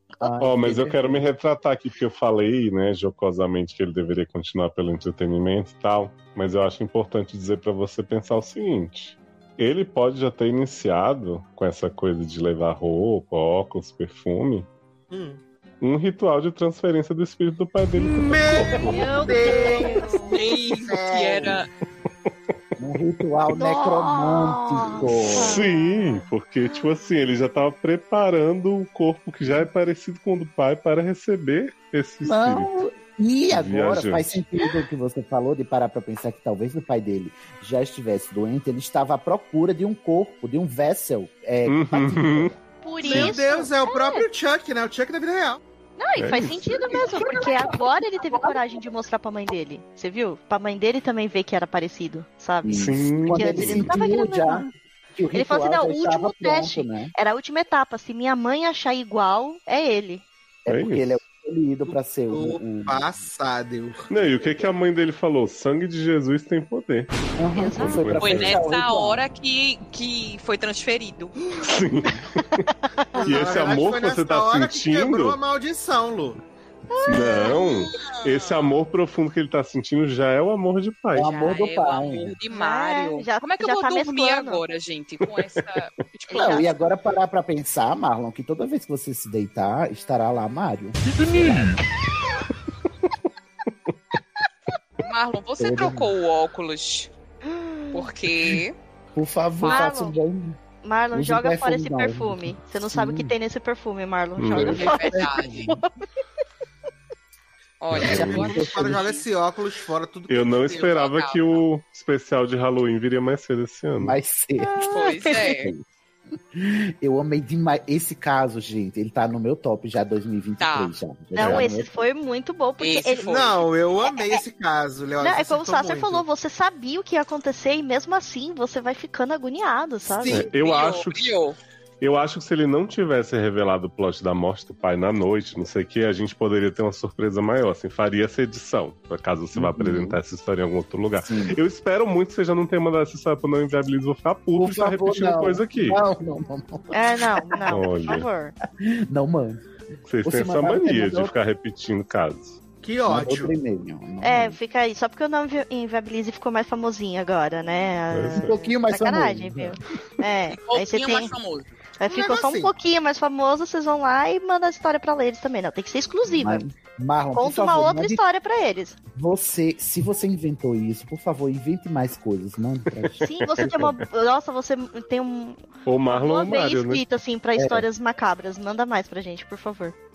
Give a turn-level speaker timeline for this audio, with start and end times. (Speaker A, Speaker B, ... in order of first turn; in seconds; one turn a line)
Speaker A: 0.2-1.3
Speaker B: 0.4-14.7
Speaker C: 15.1-15.4
Speaker B: 15.8-19.1
Speaker C: 18.0-20.1
Speaker D: 18.9-20.3
Speaker E: 20.3-21.7
Speaker C: 20.9-21.5
Speaker A: 22.8-25.7
Speaker D: 23.6-25.9
Speaker B: 25.4-32.7
Speaker A: 32.2-42.6
Speaker B: 33.5-34.4
Speaker B: 41.7-42.5
Speaker D: 42.8-44.2
Speaker C: 43.0-45.6
Speaker D: 46.0-54.7
Speaker B: 46.2-46.7
Speaker A: 52.6-57.1
Speaker B: 52.7-54.0
Speaker D: 55.3-60.2
Speaker A: 60.6-63.1
Speaker B: 60.7-61.2
Speaker C: 62.3-64.3
Speaker B: 64.1-67.1
Speaker A: 67.4-69.2
Speaker D: 67.5-68.1
Speaker B: 67.8-68.6
Speaker E: 68.2-71.3
Speaker B: 71.6-72.6
Speaker D: 73.0-73.5
Speaker C: 73.2-76.4
Speaker B: 73.2-75.4
Speaker D: 76.9-77.9
Speaker B: 77.0-81.3
Speaker E: 78.0-78.7
Speaker A: 81.1-82.3
Speaker E: 81.2-86.8
Speaker D: 82.5-84.6
Speaker D: 86.3-86.7
Speaker A: 86.3-91.8
Speaker E: 95.0-97.1
Speaker A: 95.6-96.1
Speaker D: 97.5-98.1
Speaker E: 97.9-98.8
Speaker A: 99.1-100.5
Speaker D: 99.6-100.2
Speaker E: 99.6-99.9
Speaker D: 100.8-105.8
Speaker A: 101.1-103.3
Speaker B: 104.4-104.8
Speaker A: 104.5-105.5
Speaker E: 104.5-105.7
Speaker E: 107.8-109.2
Speaker B: 107.9-108.5
Speaker A: 108.0-109.1
Speaker C: 108.3-110.9
Speaker B: 110.3-114.2
Speaker E: 110.7-111.6
Speaker A: 114.0-115.8
Speaker D: 114.6-115.4
Speaker E: 114.9-115.7
Speaker A: 116.5-121.9
Speaker E: 120.6-120.9
Speaker D: 121.3-123.5
Speaker B: 121.4-121.7
Speaker E: 122.8-123.7
Speaker C: 123.3-126.2
Speaker D: 124.0-124.4
Speaker D: 125.2-130.4
Speaker B: 130.2-131.4
Speaker E: 130.5-131.6
Speaker B: 132.0-146.0
Speaker A: 139.5-140.2
Speaker A: 141.2-141.6
Speaker A: 144.6-147.8
Speaker D: 146.9-148.5
Speaker B: 147.7-148.3
Speaker A: 148.8-149.6
Speaker B: 150.1-152.6
Speaker A: 150.2-151.3
Speaker C: 152.8-153.5
Speaker A: 153.0-154.6
Speaker D: 154.2-161.3
Speaker B: 158.1-158.6
Speaker A: 158.3-159.8
Speaker E: 160.6-161.7
Speaker D: 162.0-166.6
Speaker C: 162.1-162.7
Speaker A: 166.3-168.2
Speaker D: 167.3-169.0
Speaker A: 169.1-173.2
Speaker B: 172.9-174.0
Speaker D: 173.2-179.9
Speaker B: 175.8-177.0
Speaker A: 177.6-177.9